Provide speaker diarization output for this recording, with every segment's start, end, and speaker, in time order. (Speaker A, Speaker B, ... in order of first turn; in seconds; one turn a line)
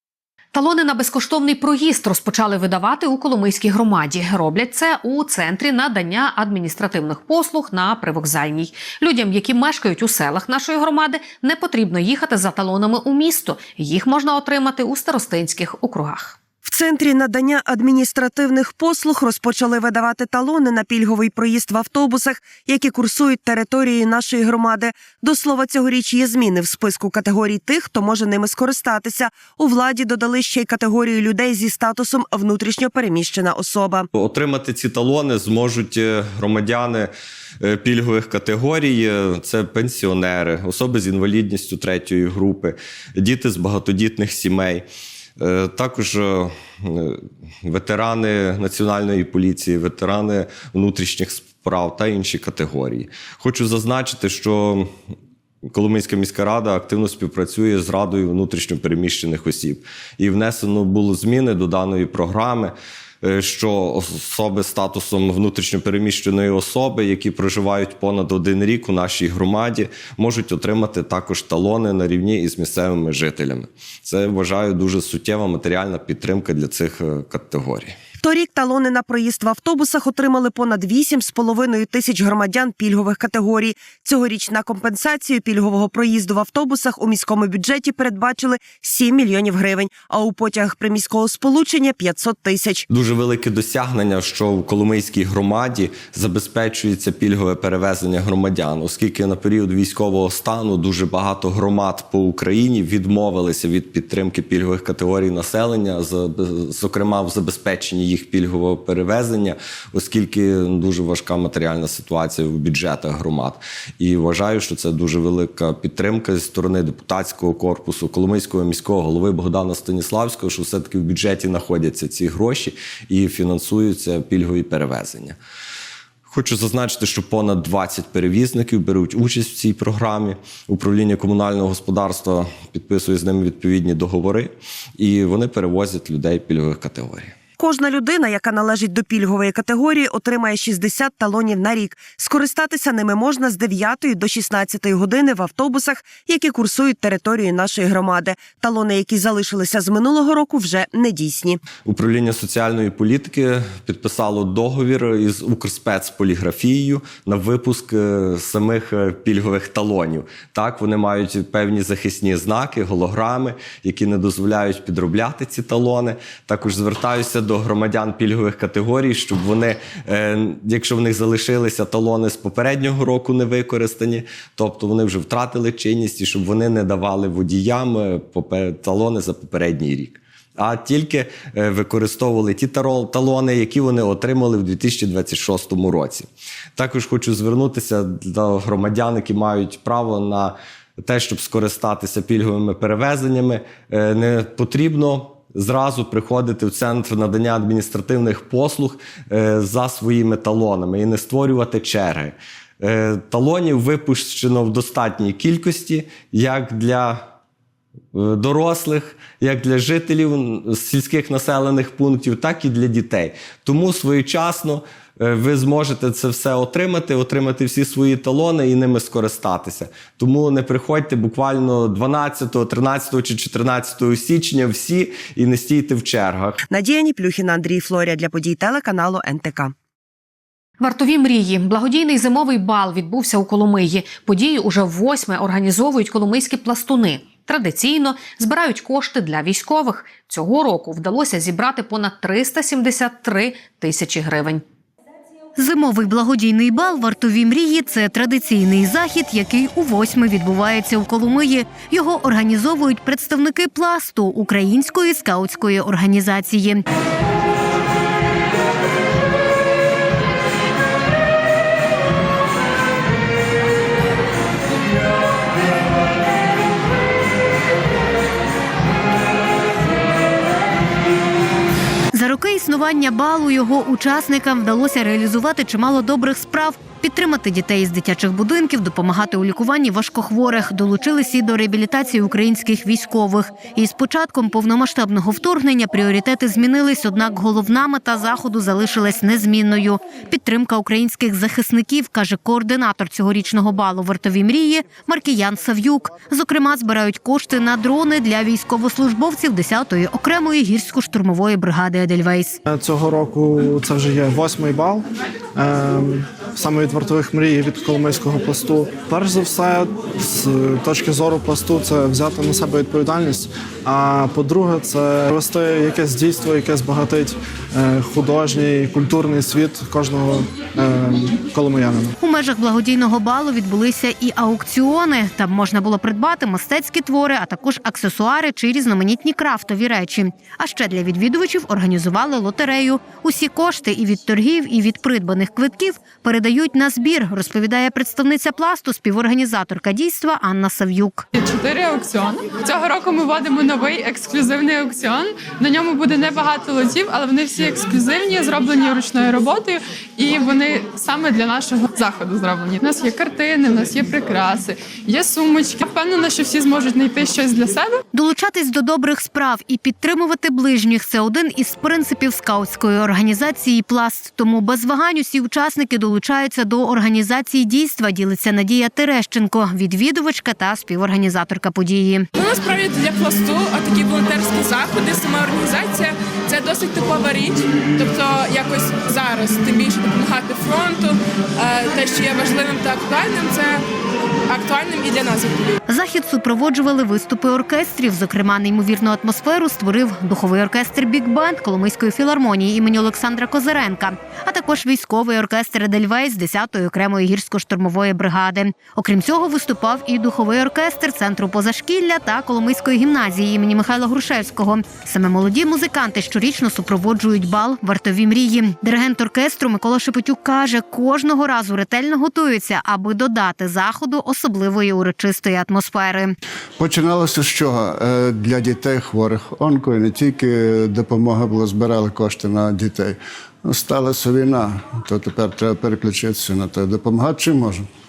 Speaker A: 0.5-16.4
Speaker B: 16.6-34.1
Speaker C: 34.1-37.1
Speaker C: 37.6-44.9
Speaker C: 45.4-54.9
Speaker C: 55.7-78.0
Speaker B: 78.2-92.8
Speaker C: 92.9-125.4
Speaker C: 126.3-137.3
Speaker B: 137.6-151.6
Speaker C: 151.8-207.2
Speaker C: 208.1-226.6
Speaker B: 226.7-229.7
Speaker A: 230.8-244.6
Speaker D: 245.6-256.8
Speaker D: 272.1-302.6
Speaker E: 302.7-305.1
Speaker E: 305.6-322.1
Speaker D: 322.2-341.3
Speaker F: 341.4-358.0
Speaker D: 358.1-372.3
Speaker G: 372.4-383.8
Speaker G: 384.5-385.7
Speaker D: 385.9-416.4
Speaker H: 416.8-423.2
Speaker H: 423.7-427.8